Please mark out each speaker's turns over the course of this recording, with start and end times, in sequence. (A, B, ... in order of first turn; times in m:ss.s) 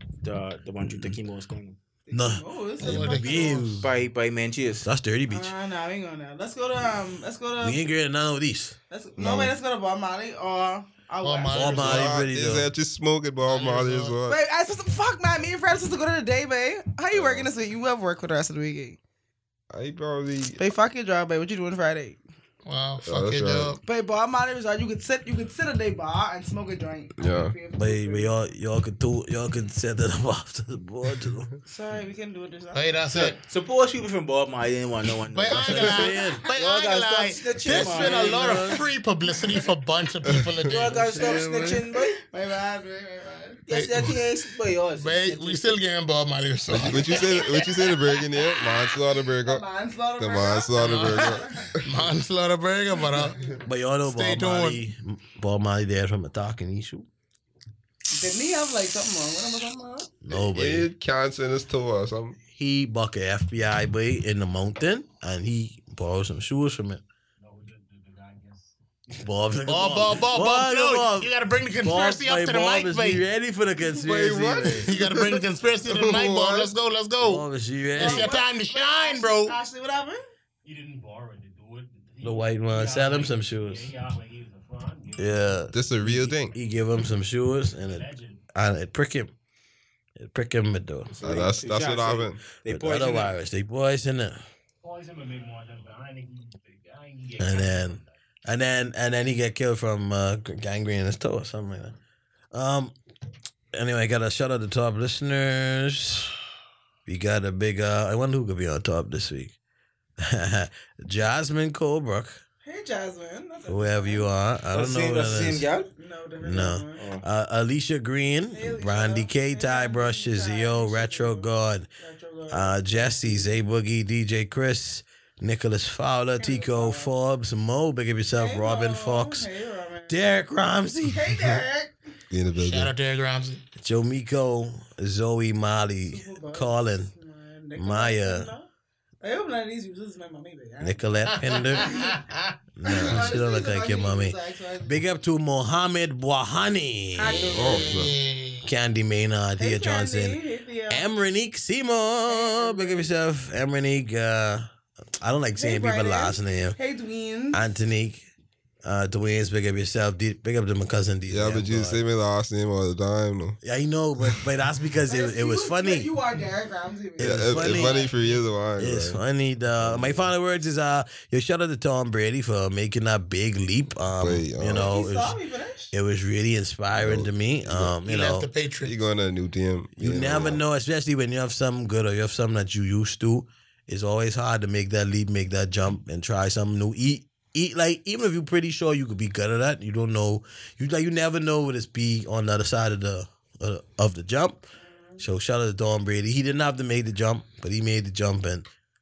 0:00.2-0:01.8 A
0:02.0-0:03.6 B
0:02.1-0:03.9 C
0:02.8-0:03.8 D
0:03.7-0:04.9 A
0:04.8-0:05.5 C
0:05.3-0:07.8 B
0:07.6-0:08.8 C
0:08.9-0:12.0 B
0:09.2-0:09.5 E
0:11.2-0:12.2 D
0:11.5-0:12.7 C
0:11.8-0:14.4 E
0:13.4-0:14.2 D
0:14.3-0:19.0 B
0:17.1-0:17.5 E
0:19.7-0:20.6 E
0:20.6-0:22.2 B
0:22.6-0:23.8 D
0:23.0-0:23.8 E
0:23.8-0:28.3 B
0:27.2-0:27.5 E
0:27.7-0:31.5 C
0:31.6-0:32.9 B
0:32.7-0:33.4 D
0:33.4-0:38.8 A
0:35.3-0:41.3 D
0:35.5-0:36.4 C
0:37.6-0:38.8 C
0:40.3-0:40.6 E
0:40.6-0:42.2 A
0:40.8-0:41.8 C
0:41.9-0:43.6 B
0:43.7-0:45.8 A
0:43.7-0:44.1 D
0:45.0-0:47.3 D
0:46.7-0:49.6 E
0:46.9-0:51.7 B
0:50.2-0:51.9 E
0:51.8-0:54.8 D
0:53.6-0:57.1 C
0:58.1-1:00.1 B
1:00.2-1:00.9 C
1:00.5-1:02.4 E
1:02.5-1:07.0 C
1:07.4-1:09.2 F
1:09.2-1:11.3 C
1:09.6-1:13.2 D
1:11.8-1:14.9 C
1:14.0-1:16.7 E
1:14.8-1:19.6 D
1:17.2-1:18.4 C
1:18.0-1:20.2 B
1:20.6-1:25.6 F
1:22.2-1:23.9 C
1:25.2-1:29.3 C
1:25.7-1:26.5 E
1:27.8-1:28.5 F
1:30.2-1:31.1 C
1:31.1-1:33.4 A
1:31.2-1:32.4 E
1:32.6-1:34.4 C
1:34.8-1:38.1 F
1:37.4-1:42.0 C
1:42.5-1:42.9 C
1:43.7-1:46.3 C
1:47.0-1:49.5 C
1:50.2-1:52.4 C
1:52.6-1:54.3 B
1:53.7-1:55.7 C
1:54.7-1:55.9 A
1:56.0-1:57.0 B
1:56.4-2:01.9 C
1:57.0-1:57.2 A
1:58.5-2:03.4 B
2:02.5-2:09.5 C
2:06.4-2:07.1 B
2:08.3-2:10.2 B
2:10.1-2:11.2 C
2:11.1-2:11.9 B
2:12.3-2:12.9 E
2:12.5-2:13.6 D
2:13.8-2:17.1 C
2:16.0-2:18.7 B
2:17.8-2:18.5 C
2:19.2-2:21.0 B
2:20.8-2:22.0 C
2:21.4-2:22.5 D
2:21.8-2:22.1 B
2:22.8-2:27.5 C
2:22.8-2:25.0 B
2:27.2-2:28.0 B
2:27.5-2:28.7 D
2:27.5-2:28.1 E
2:28.6-2:34.7 C
2:29.6-2:31.1 B
2:32.3-2:33.1 B
2:35.2-2:36.8 C
2:35.6-2:37.6 B
2:37.5-2:38.2 C
2:38.8-2:42.0 C
2:41.3-2:43.6 E
2:43.6-2:46.1 C
2:45.1-2:48.4 B
2:47.2-2:49.2 E
2:47.2-2:48.0 C
2:48.8-2:55.4 C
2:49.8-2:50.3 E
2:54.2-2:55.0 E
2:54.8-2:55.9 B
2:55.9-2:58.5 C
2:57.0-2:58.0 E
2:58.0-2:59.0 D
2:58.8-3:00.6 E
3:00.0-3:14.6 C
3:14.8-3:15.2 B
3:15.2-3:18.7 C